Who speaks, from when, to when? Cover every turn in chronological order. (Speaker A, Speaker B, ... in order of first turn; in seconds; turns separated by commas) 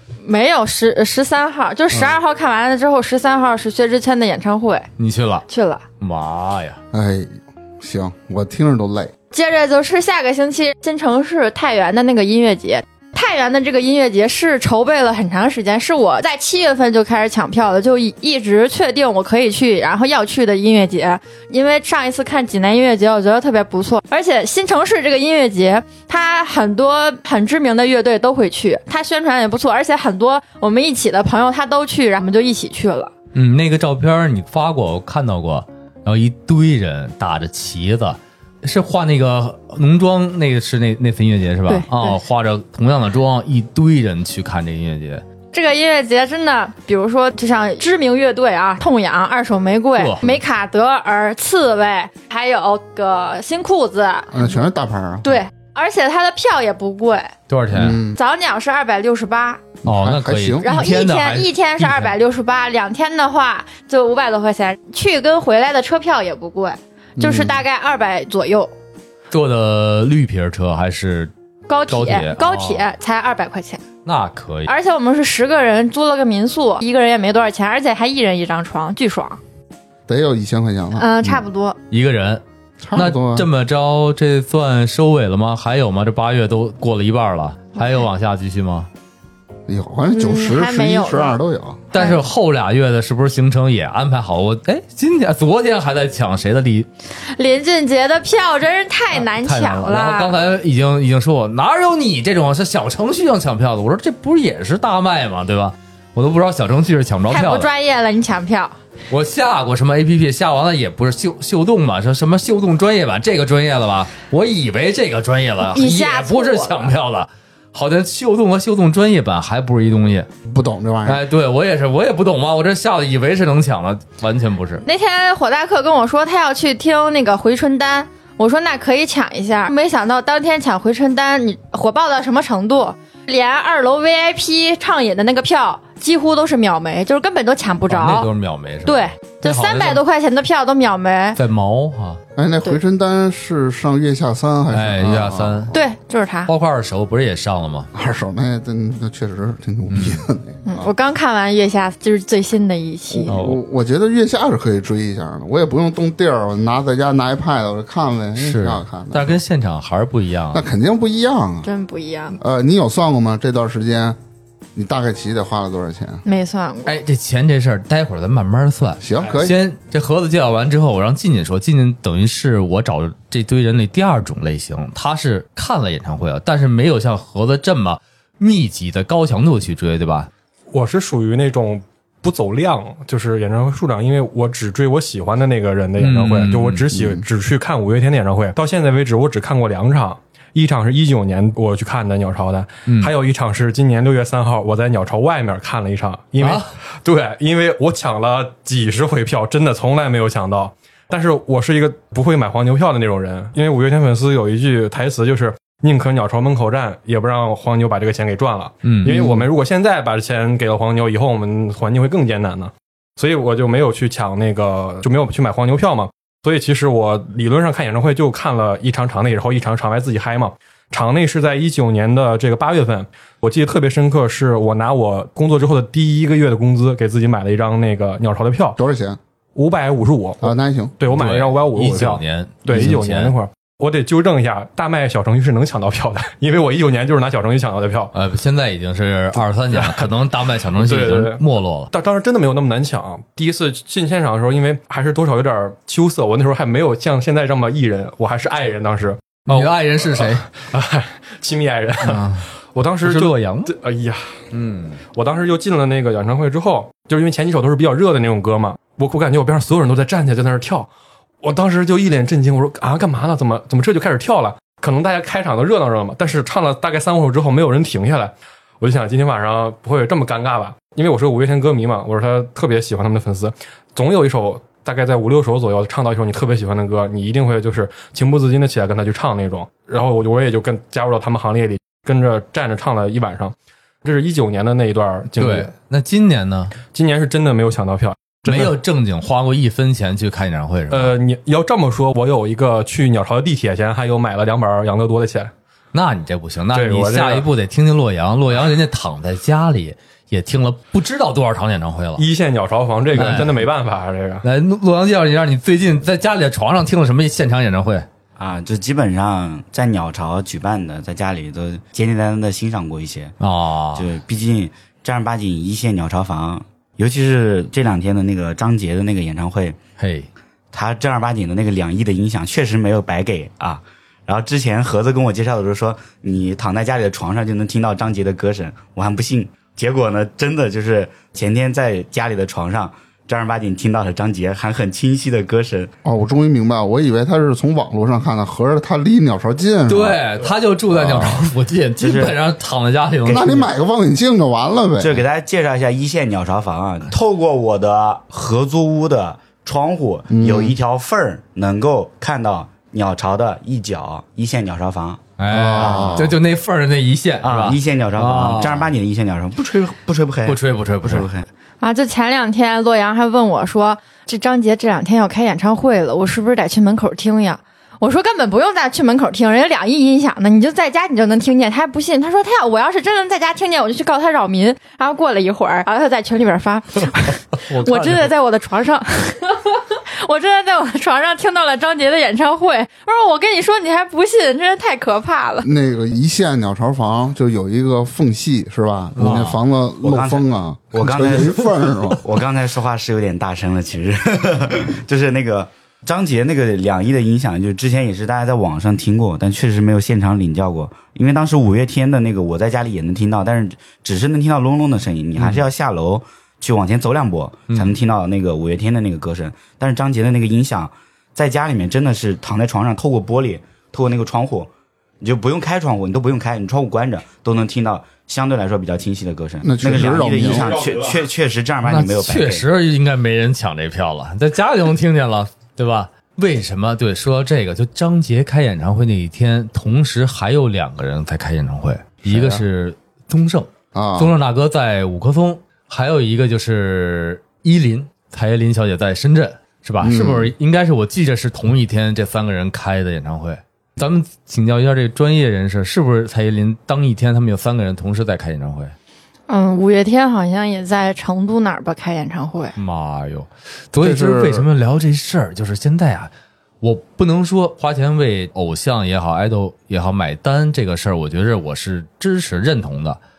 Speaker A: 0.2-4.9, Speaker B: 5.0-5.5, Speaker A: 5.5-5.8, Speaker B: 6.0-6.8, Speaker C: 6.9-9.1, Speaker A: 9.3-33.1, Speaker B: 33.3-45.2, Speaker A: 41.7-42.2, Speaker A: 45.5-54.5, Speaker B: 50.0-50.2, Speaker C: 54.3-55.4, Speaker A: 55.2-57.3, Speaker B: 57.5-58.0, Speaker C: 57.7-58.2, Speaker A: 58.1-59.6, Speaker C: 59.8-60.7, Speaker B: 59.9-62.1, Speaker A: 60.6-68.7, Speaker C: 67.2-67.6, Speaker B: 69.3-71.3, Speaker A: 71.7-73.8, Speaker B: 71.9-72.9, Speaker B: 74.0-74.7, Speaker A: 74.7-79.4, Speaker C: 80.1-81.4, Speaker A: 81.0-81.8, Speaker B: 81.9-82.4, Speaker C: 82.8-83.5, Speaker B: 83.0-88.9, Speaker C: 89.7-91.9, Speaker A: 90.1-91.4, Speaker B: 91.9-96.9, Speaker A: 91.9-92.2, Speaker A: 97.3-100.3, Speaker B: 99.1-107.7, Speaker A: 107.3-108.8, Speaker B: 109.1-120.3, Speaker A: 115.7-116.9, Speaker C: 120.5-121.2, Speaker B: 121.0-124.8, Speaker A: 124.8-138.3, Speaker B: 137.9-140.0, Speaker A: 138.9-141.4, Speaker B: 141.4-142.2, Speaker C: 142.4-145.8, Speaker B: 144.7-145.7, Speaker A: 145.7-146.5, Speaker B: 146.5-147.9, Speaker C: 147.9-150.9, Speaker B: 149.9-150.2, Speaker A: 150.7-153.3, Speaker C: 153.1-159.4, Speaker B: 153.3-153.6, Speaker B: 158.4-160.6, Speaker C: 160.5-161.7, Speaker A: 161.6-162.4, Speaker C: 162.4-164.2, Speaker C: 164.8-166.2, Speaker A: 166.2-167.0, Speaker B: 166.9-180.3, Speaker C: 169.0-169.6, Speaker D: 180.7-228.8, Speaker B: 186.0-186.8, Speaker C: 186.9-187.2, Speaker B: 192.9-193.1, Speaker B: 196.4-196.7, Speaker B: 208.8-209.2, Speaker C: 209.1-209.4, Speaker C: 228.8-229.2, Speaker D: 229.6-238.1, Speaker C: 230.4-230.9, Speaker B: 231.1-233.3, Speaker B: 238.1-241.9, Speaker D: 239.7-240.1, Speaker D: 240.7-254.4, Speaker B: 249.5-250.5, Speaker B: 252.0-252.5, Speaker B: 253.0-253.7, Speaker B: 254.5-255.0, Speaker D: 255.1-260.9, Speaker D: 261.4-285.7, Speaker B: 285.4-286.8, Speaker D: 286.9-288.8, Speaker B: 288.5-291.1, Speaker D: 290.9-295.5, Speaker B: 295.9-302.2, Speaker D: 296.7-297.5, Speaker D: 302.2-304.4, Speaker B: 303.1-303.6, Speaker B: 304.4-308.1, Speaker E: 308.4-313.4, Speaker B: 313.4-314.1, Speaker E: 314.0-319.8, Speaker B: 320.0-320.3, Speaker E: 320.7-335.9, Speaker C: 336.0-340.2, Speaker B: 339.9-343.6, Speaker C: 341.0-341.3, Speaker E: 342.0-342.4, Speaker E: 343.2-343.6, Speaker C: 343.3-345.2, Speaker E: 345.0-356.4, Speaker C: 350.3-350.8, Speaker B: 355.4-358.9, Speaker C: 355.5-356.4, Speaker E: 357.4-361.5, Speaker B: 360.5-361.3, Speaker A: 361.8-385.7, Speaker B: 377.7-378.3, Speaker C: 385.6-392.2, Speaker B: 389.2-389.6, Speaker E: 390.0-391.7, Speaker E: 392.2-422.6, Speaker B: 405.4-405.6, Speaker B: 407.7-408.0, Speaker C: 419.6-420.8, Speaker B: 421.8-448.9, Speaker C: 432.2-432.6, Speaker C: 433.9-434.3, Speaker C: 440.0-440.5, Speaker A: 449.5-452.8, Speaker B: 452.8-463.2, Speaker C: 454.0-454.6